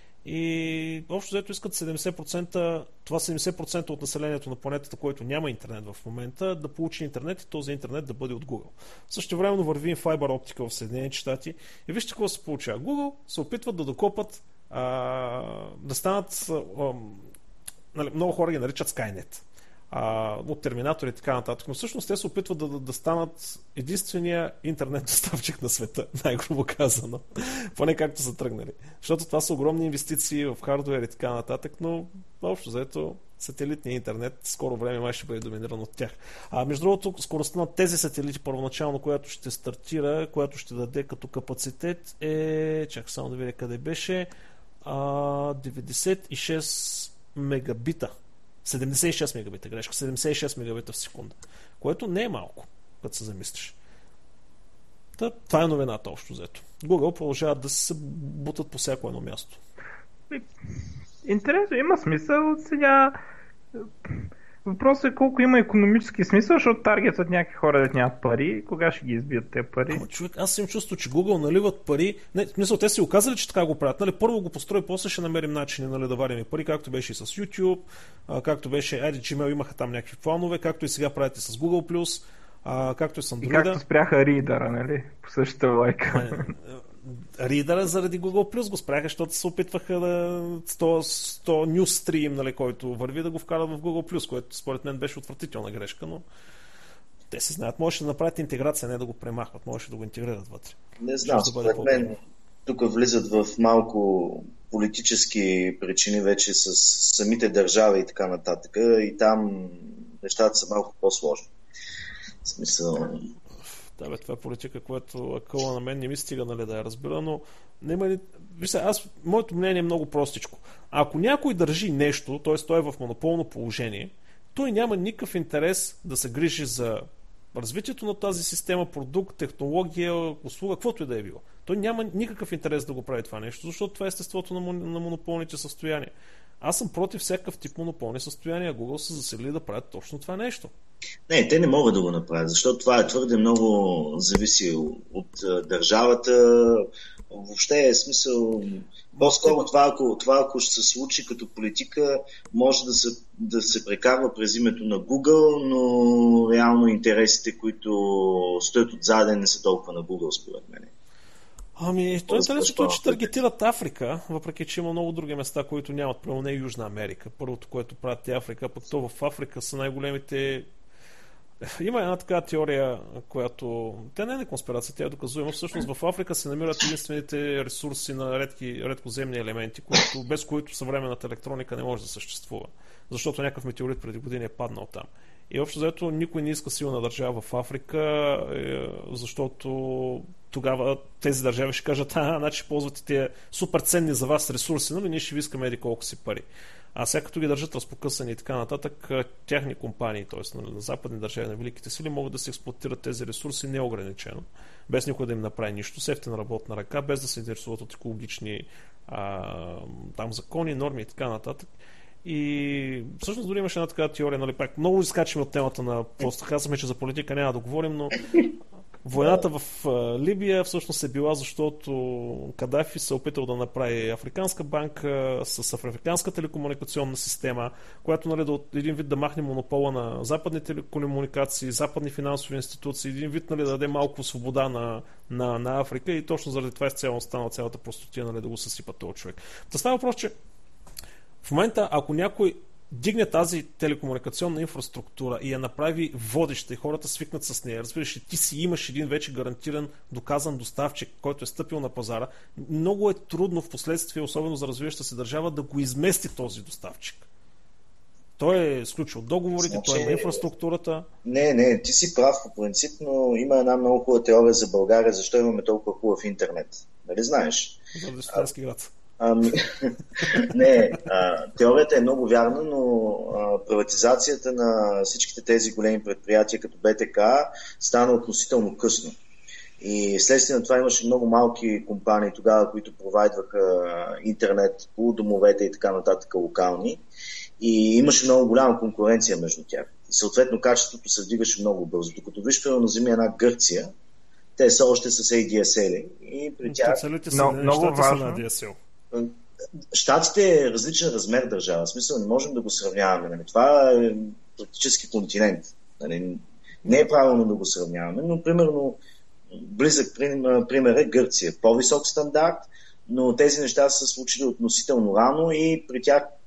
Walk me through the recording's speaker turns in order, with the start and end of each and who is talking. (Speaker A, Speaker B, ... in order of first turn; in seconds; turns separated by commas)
Speaker A: 0.2-17.3, Speaker A: 17.9-44.3, Speaker A: 44.8-48.1, Speaker A: 48.6-53.8, Speaker A: 55.2-59.6, Speaker B: 61.2-63.2, Speaker B: 63.8-70.0, Speaker A: 69.9-83.8, Speaker B: 83.4-86.5, Speaker A: 86.1-96.2, Speaker A: 97.3-102.1, Speaker C: 101.0-111.5, Speaker C: 112.5-113.3, Speaker A: 114.0-140.7, Speaker C: 141.3-160.9, Speaker A: 149.2-149.6, Speaker A: 161.8-170.7, Speaker C: 162.3-163.3, Speaker A: 171.6-211.7, Speaker A: 212.2-218.2, Speaker A: 219.1-240.3, Speaker A: 241.4-257.3, Speaker A: 258.4-261.1, Speaker C: 259.6-260.4, Speaker C: 261.2-267.8, Speaker A: 267.9-268.9, Speaker C: 269.2-279.2, Speaker C: 279.8-287.0, Speaker C: 287.6-293.9, Speaker C: 294.6-297.0, Speaker A: 296.6-298.8, Speaker B: 297.3-298.4, Speaker C: 299.9-309.0, Speaker C: 309.5-316.3